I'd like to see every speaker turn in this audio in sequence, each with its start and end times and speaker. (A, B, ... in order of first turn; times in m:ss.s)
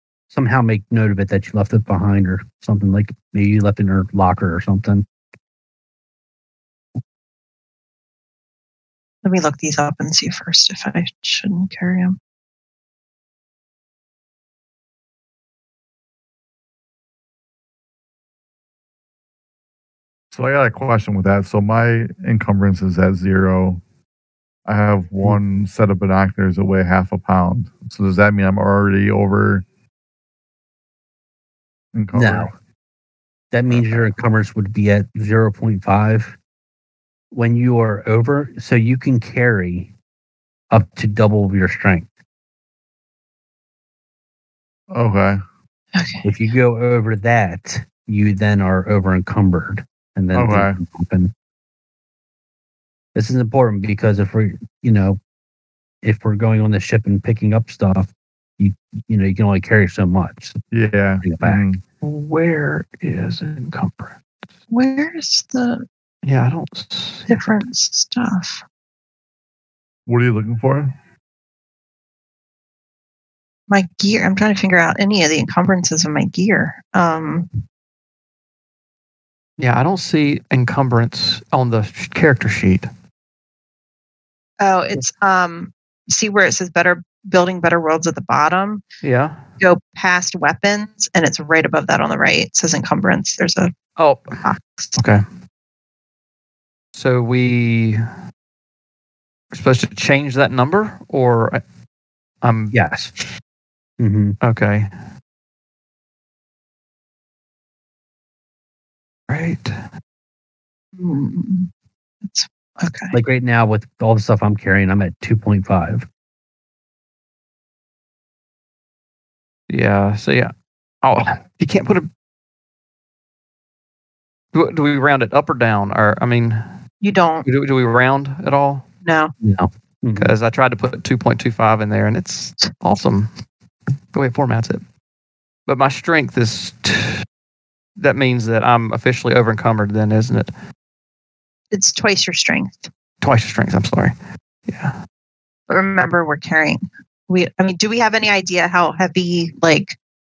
0:00.3-0:05.1 A
0:09.2-0:12.2 B
0:20.3-0:23.8 C
0:24.7-0:29.6 C
0:31.9-0:32.5 C
0:32.1-0:32.5 A
0:33.5-0:36.4 A
0:33.7-0:34.0 C
0:37.3-0:39.9 A
0:40.7-0:42.1 A
0:44.9-0:45.4 C
0:46.0-0:46.3 B
0:46.2-0:51.3 A
0:50.3-0:50.8 C
0:53.2-0:55.2 A
0:56.0-1:00.6 A
1:00.7-1:01.8 C
1:01.2-1:01.7 A
1:02.0-1:04.2 D
1:04.7-1:05.8 B
1:06.2-1:07.6 D
1:07.3-1:08.6 B
1:10.1-1:11.0 C
1:13.7-1:17.5 B
1:19.6-1:22.9 D
1:24.6-1:28.8 B
1:29.0-1:29.4 D
1:29.6-1:33.7 B
1:34.0-1:34.4 D
1:34.4-1:35.0 B
1:35.0-1:35.2 D
1:36.9-1:38.1 D
1:39.5-1:41.6 D
1:42.4-1:42.7 D
1:42.7-1:43.1 A
1:44.0-1:44.4 A
1:44.4-1:44.9 D
1:49.3-1:49.8 D
1:51.0-1:51.7 B
1:52.2-1:53.2 B
1:53.1-1:56.1 A
1:59.7-2:00.5 D
2:01.0-2:02.1 D
2:04.5-2:06.7 D
2:07.0-2:07.5 B
2:07.4-2:08.8 D
2:09.0-2:09.3 B
2:09.4-2:10.3 A
2:10.2-2:13.3 D
2:14.1-2:14.8 D
2:15.7-2:17.2 D
2:18.0-2:20.5 D
2:21.7-2:22.9 B
2:23.2-2:24.1 D
2:24.7-2:25.0 D
2:25.7-2:30.0 B